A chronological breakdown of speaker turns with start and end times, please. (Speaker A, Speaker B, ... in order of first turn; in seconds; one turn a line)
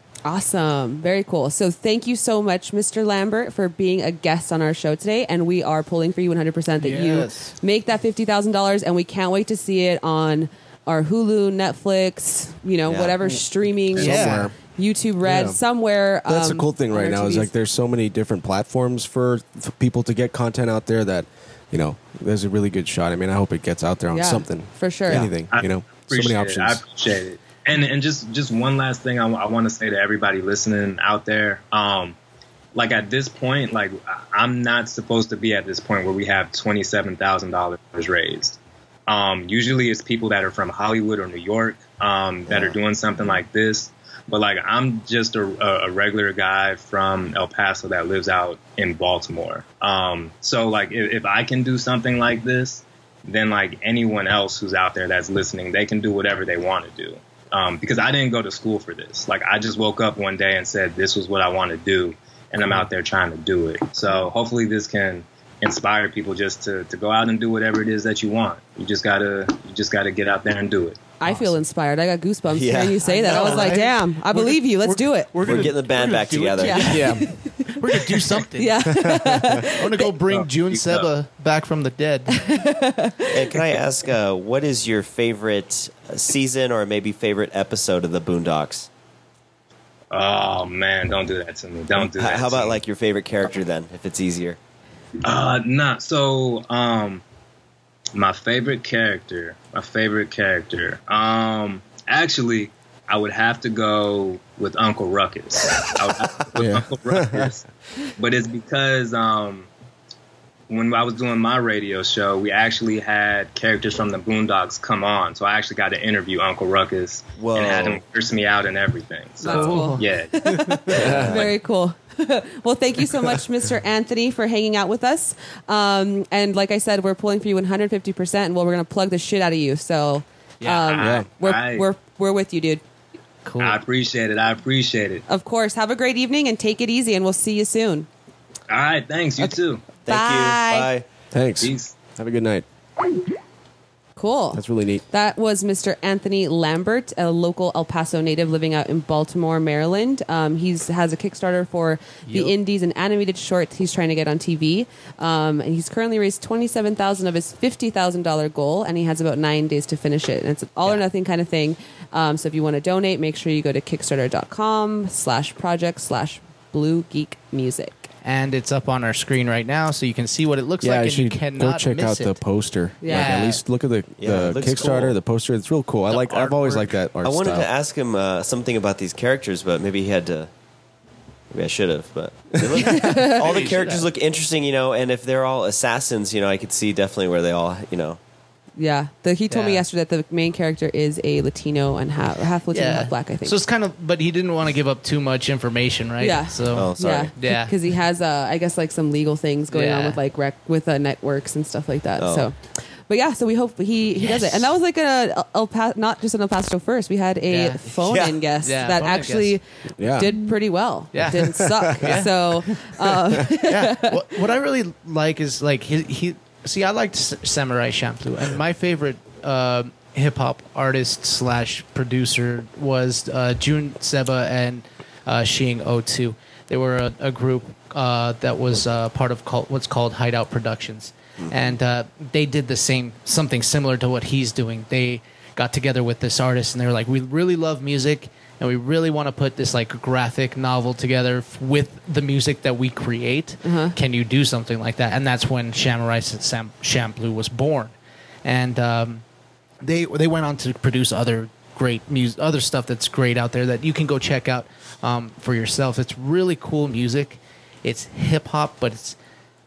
Speaker A: 0.2-17.5
Speaker B: 6.8-7.5
Speaker C: 12.9-13.3
Speaker D: 14.0-14.5
Speaker B: 14.0-14.5
Speaker D: 15.2-15.6
Speaker D: 16.3-26.8
Speaker A: 24.1-25.3
Speaker E: 25.5-32.1
Speaker E: 32.8-71.1
Speaker C: 42.5-42.8
Speaker A: 71.2-75.3
Speaker B: 71.2-71.6
Speaker C: 72.5-73.8
Speaker B: 73.0-79.0
Speaker C: 75.4-77.0
Speaker A: 76.6-80.1
Speaker D: 76.9-77.3
Speaker D: 78.9-79.7
Speaker B: 79.7-82.5
Speaker E: 80.5-81.1
Speaker A: 82.3-83.6
Speaker C: 83.3-88.9
Speaker E: 90.1-92.8
Speaker C: 92.0-94.6
Speaker E: 95.2-97.2
Speaker E: 98.2-107.7
Speaker D: 106.5-107.5
Speaker E: 108.2-109.7
Speaker E: 110.7-121.2
Speaker C: 117.4-118.0
Speaker A: 119.4-132.8
Speaker B: 119.4-120.0
Speaker D: 120.9-121.5
Speaker C: 121.0-121.4
Speaker B: 130.6-130.9
Speaker E: 130.9-131.9
Speaker D: 131.0-131.3
Speaker B: 133.4-133.8
Speaker E: 133.6-135.2
Speaker A: 135.3-138.1
Speaker E: 138.7-139.8
Speaker C: 140.1-141.1
Speaker A: 140.1-140.9
Speaker D: 141.3-142.7
Speaker E: 141.6-141.9
Speaker A: 144.2-168.1
Speaker D: 144.5-145.0
Speaker B: 152.3-152.5
Speaker B: 168.2-172.4
Speaker D: 170.8-177.7
Speaker A: 173.0-173.5
Speaker B: 173.1-173.6
Speaker C: 174.2-175.2
Speaker B: 176.1-176.9
Speaker C: 177.2-180.5
Speaker C: 181.5-188.2
Speaker A: 182.8-183.6
Speaker B: 183.0-184.1
Speaker A: 188.8-193.6
Speaker B: 189.5-189.8
Speaker B: 192.7-197.8
Speaker A: 196.2-214.4
Speaker C: 196.7-197.3
Speaker B: 199.7-200.2
Speaker C: 202.2-202.5
Speaker B: 204.2-204.7
Speaker B: 207.5-208.0
Speaker C: 208.1-208.4
Speaker B: 208.5-209.6
Speaker D: 210.0-210.3
Speaker B: 211.1-212.8
Speaker D: 211.3-212.3
Speaker B: 213.5-249.2
Speaker C: 231.4-231.7
Speaker A: 243.6-244.0
Speaker B: 249.8-259.2